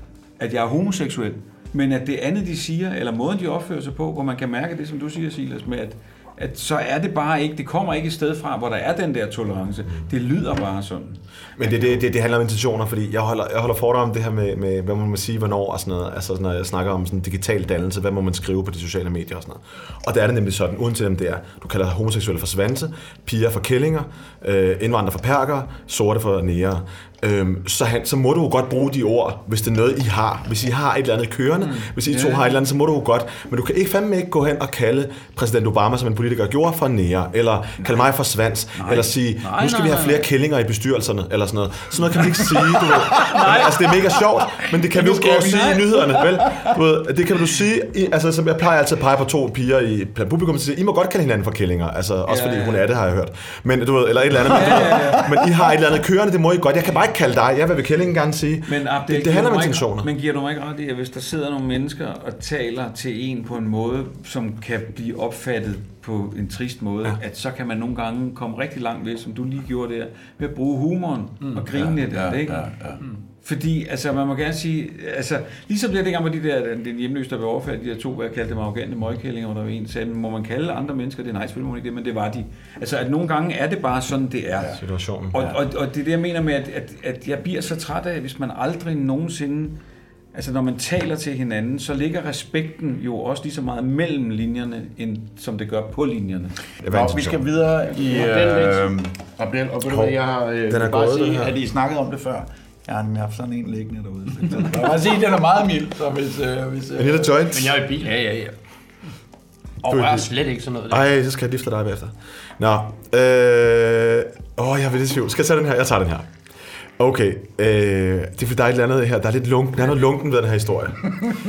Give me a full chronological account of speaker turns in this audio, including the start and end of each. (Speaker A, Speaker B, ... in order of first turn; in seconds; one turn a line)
Speaker A: 0.4-12.0
Speaker B: 11.6-60.1
Speaker A: 31.9-32.6
Speaker A: 38.8-40.3
Speaker A: 42.8-44.0
Speaker C: 45.0-46.6
Speaker A: 45.3-46.0
Speaker A: 52.3-52.9
Speaker A: 54.4-55.3
Speaker C: 54.9-55.2
Speaker A: 58.7-72.7
Speaker C: 71.7-73.0
Speaker A: 73.4-84.8
Speaker B: 84.8-85.5
Speaker A: 85.3-89.8
Speaker A: 90.3-96.5
Speaker B: 96.8-97.4
Speaker C: 96.9-107.4
Speaker D: 98.0-98.9
Speaker B: 99.9-100.2
Speaker B: 100.7-101.6
Speaker B: 107.0-107.8
Speaker D: 107.5-108.2
Speaker C: 108.0-108.5
Speaker D: 109.8-111.0
Speaker B: 109.8-110.3
Speaker B: 110.9-116.3
Speaker B: 117.0-121.0